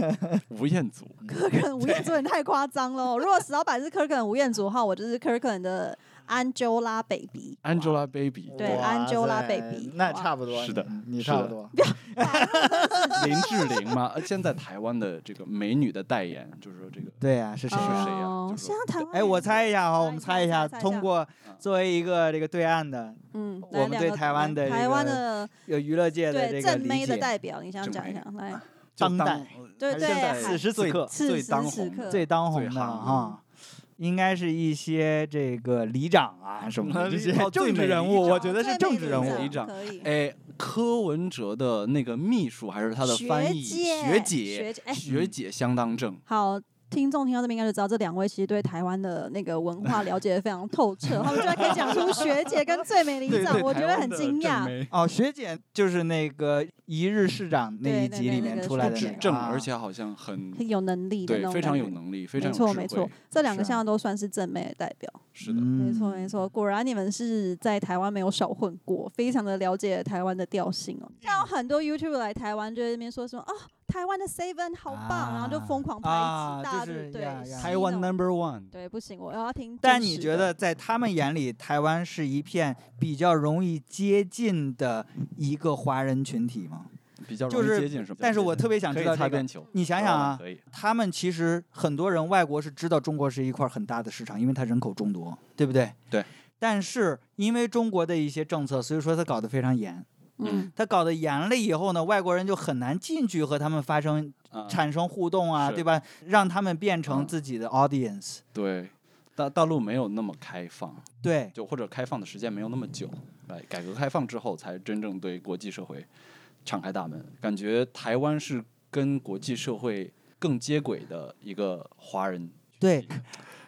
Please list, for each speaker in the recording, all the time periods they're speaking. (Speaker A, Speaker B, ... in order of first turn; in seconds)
Speaker A: 0.5-1.2, 7.6-8.9, 10.5-11.5, 13.1-19.1, 27.8-33.2, 36.8-46.2, 51.2-52.4, 53.2-54.9, 58.6-60.6, 61.2-63.8, 65.3-65.7, 77.6-78.7, 87.2-90.6, 100.4-100.7, 104.5-104.8, 105.6-105.8, 107.1-107.3, 108.5-116.1, 116.6-123.2
Speaker B: 1.3-7.9, 8.6-10.3, 11.7-13.8, 17.7-21.1, 23.3-25.5, 26.3-28.6, 29.8-32.2, 33.0-33.4, 38.1-40.1, 43.0-45.0, 46.3-54.7, 57.8-59.2, 60.5-78.1, 78.7-80.5, 100.4-100.7
Speaker C: 8.5-13.6, 17.2-18.1, 19.1-27.3, 29.0-31.1, 32.1-33.4, 34.0-39.5, 45.1-45.3, 54.9-59.7, 65.4-66.5, 74.9-77.7, 79.8-86.9, 87.5-96.0, 96.6-100.0, 100.7-108.4, 111.2-111.5, 122.8-123.2